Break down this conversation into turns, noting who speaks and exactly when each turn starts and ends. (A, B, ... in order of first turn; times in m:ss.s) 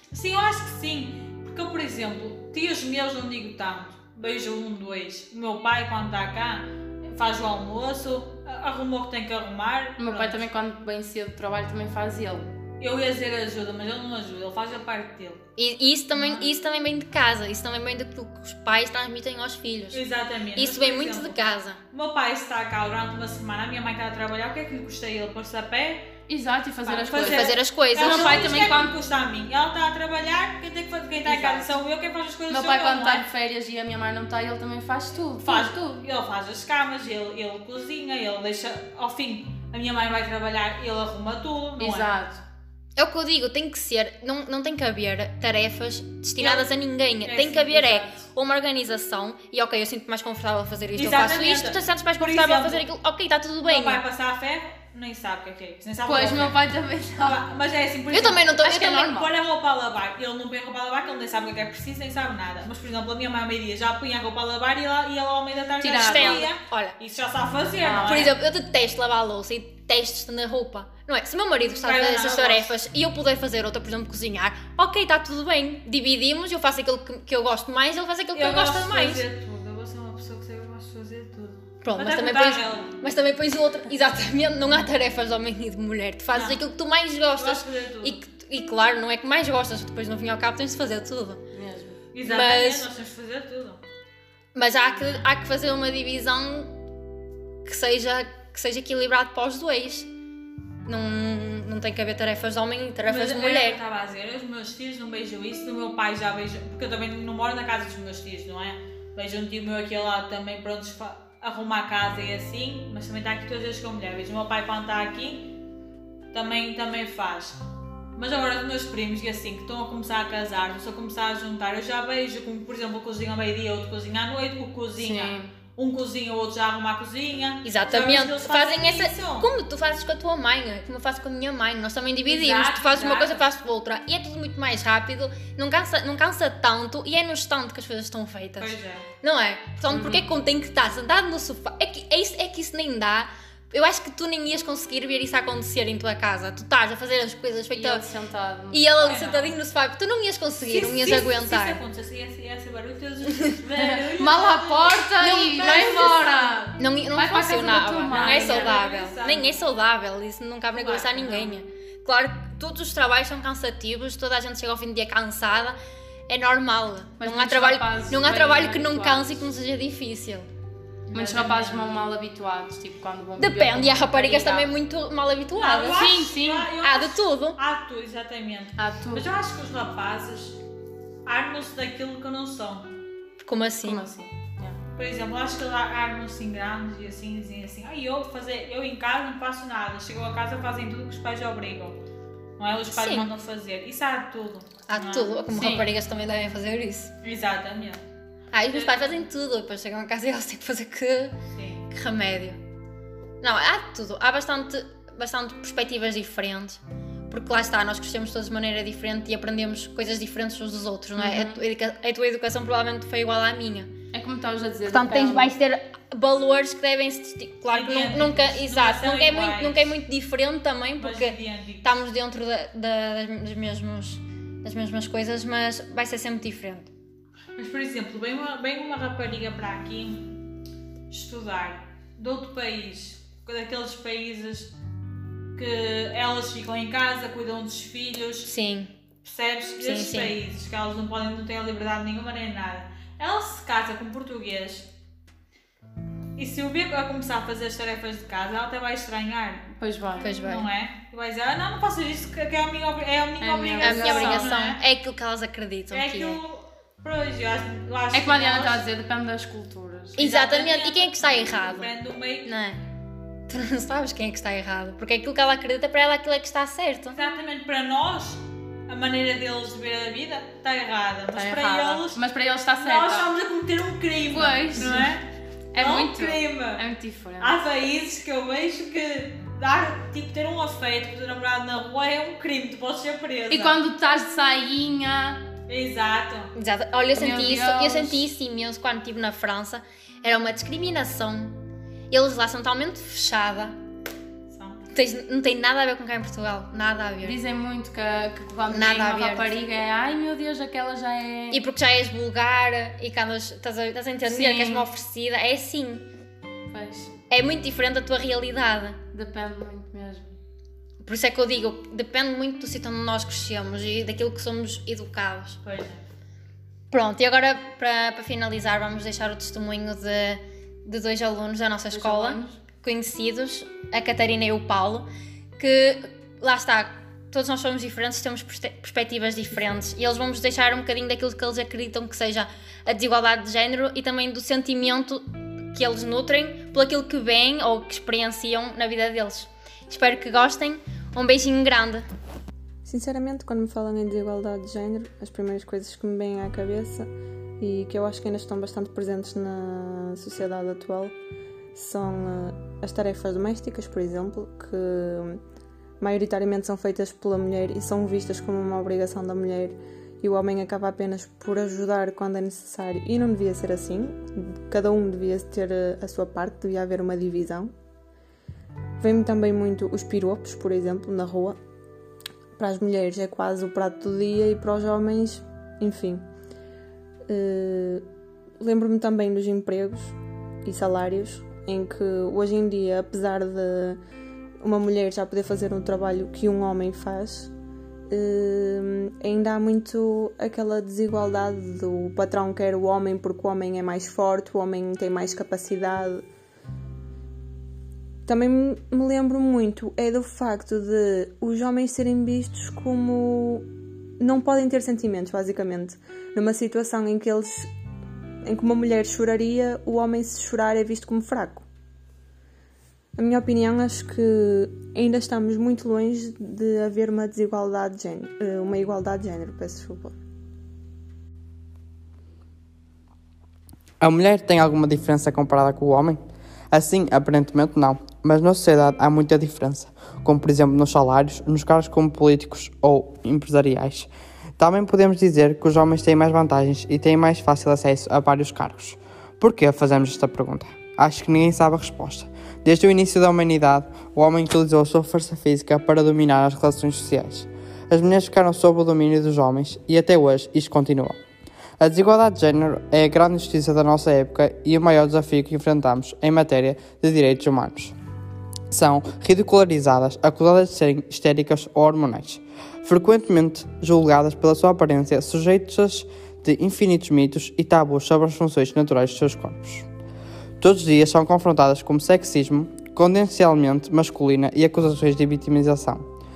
0:00.1-0:10.4 A
0:10.0-0:12.5 B
0:12.8-0:15.4 A
0:15.6-0:20.0 C
0:16.1-0:16.5 A
0:19.9-0:21.4 A
0:20.6-0:21.8 C
0:21.9-0:26.1 A
0:26.3-0:28.9 B
0:26.8-0:33.2 A
0:27.2-0:28.7 C
0:31.2-0:31.8 B
0:32.5-0:36.0 B
0:35.4-0:42.1 A
0:41.8-0:42.4 B
0:43.0-0:54.0 C
0:46.4-0:46.7 A
0:47.2-0:48.1 A
0:51.0-0:52.8 A
0:53.6-0:56.6 A
0:56.0-0:57.4 B
0:57.2-1:08.3 A
0:58.1-0:59.1 C
0:58.5-0:59.3 B
1:05.8-1:06.5 B
1:06.0-1:07.0 C
1:07.8-1:08.3 B
1:08.0-1:19.2 C
1:11.8-1:12.7 A
1:18.3-1:23.0 A
1:21.8-1:31.4 C
1:26.3-1:26.6 A
1:27.4-1:28.2 A
1:31.5-1:32.0 B
1:32.1-1:33.8 A
1:32.2-1:32.9 C
1:34.5-1:36.7 C
1:37.6-1:40.1 C
1:40.8-1:43.8 C
1:43.0-1:55.5 A
1:56.3-1:57.6 A
1:58.2-2:09.5 A
2:05.0-2:05.5 B
2:07.6-2:28.0 C
2:12.2-2:13.4 A
2:18.6-2:19.1 A
2:19.9-2:20.2 B
2:27.7-2:29.2 B
2:28.7-2:31.8 C
2:29.0-2:29.5 A
2:30.6-2:36.6 A
2:33.7-2:38.8 B
2:35.2-2:50.5 C
2:38.1-2:39.6 A
2:40.7-2:41.5 A
2:47.2-2:49.4 B
2:51.1-2:51.9 A
2:51.1-2:54.7 B
2:53.4-2:56.1 C
2:55.5-3:00.6 A
2:55.9-2:56.7 B
2:56.8-2:57.6 C
2:58.8-2:59.3 B
3:01.2-3:02.9 A
3:03.4-3:04.0 C
3:03.8-3:04.8 B
3:05.0-3:12.0 A
3:12.6-3:15.4 A
3:12.9-3:13.3 C
3:14.9-3:17.1 C
3:15.5-3:15.9 B
3:17.2-3:18.0 A
3:18.5-3:21.4 C
3:18.7-3:19.1 A
3:21.5-3:21.8 A
3:21.9-3:22.6 C
3:23.4-3:33.9 C
3:31.2-3:31.6 B
3:34.1-3:35.5 B
3:34.9-3:46.9 C
3:37.7-3:39.9 A
3:41.0-3:42.0 A
3:47.6-3:50.4 A
3:51.1-3:54.7 A
3:55.5-3:58.5 A
3:58.4-3:58.9 C
3:59.2-4:04.9 A
3:59.8-4:00.4 C
4:06.4-4:09.7 A
4:09.8-4:10.3 B
4:10.2-4:10.7 C
4:10.2-4:14.8 A
4:13.4-4:14.5 B
4:13.8-4:16.4 C
4:15.9-4:18.8 A
4:18.1-4:20.4 B
4:20.2-4:21.9 C
4:20.2-4:22.6 A
4:22.4-4:22.8 C
4:23.5-4:27.2 C
4:27.1-4:32.2 A
4:31.3-4:33.3 B
4:32.8-4:35.2 A
4:34.3-4:35.1 B
4:35.7-4:37.5 B
4:35.8-4:36.8 A
4:37.4-4:43.8 A
4:43.5-4:45.4 B
4:45.7-4:46.5 A
4:46.5-4:51.6 C
4:47.1-4:48.2 B
4:52.1-4:53.8 C
4:54.5-4:54.9 A
4:54.9-4:57.4 C
4:57.2-5:01.6 B
4:58.7-4:59.5 C
5:01.5-5:06.0 C
5:04.3-5:04.9 B
5:06.7-5:07.1 B
5:07.3-5:09.0 C
5:09.1-5:10.4 B
5:11.0-5:15.6 C
5:15.6-5:16.0 A
5:16.9-5:42.0 C
5:21.9-5:22.6 B
5:42.8-5:47.1 D
5:47.6-5:51.1 D
5:51.7-5:55.4 D
5:56.0-6:07.7 D
6:09.0-6:11.6 D
6:12.6-6:16.2 D
6:17.3-6:18.0 D
6:18.6-6:24.0 D
6:24.6-6:27.5 D
6:28.1-6:36.2 D
6:38.2-6:43.7 D
6:44.2-6:47.7 D
6:48.4-6:51.6 D
6:53.2-7:00.2 D
7:04.0-7:06.2 E
7:06.7-7:31.2 E
7:31.8-7:37.9 E
7:38.7-7:49.9 E
7:50.6-7:56.0 E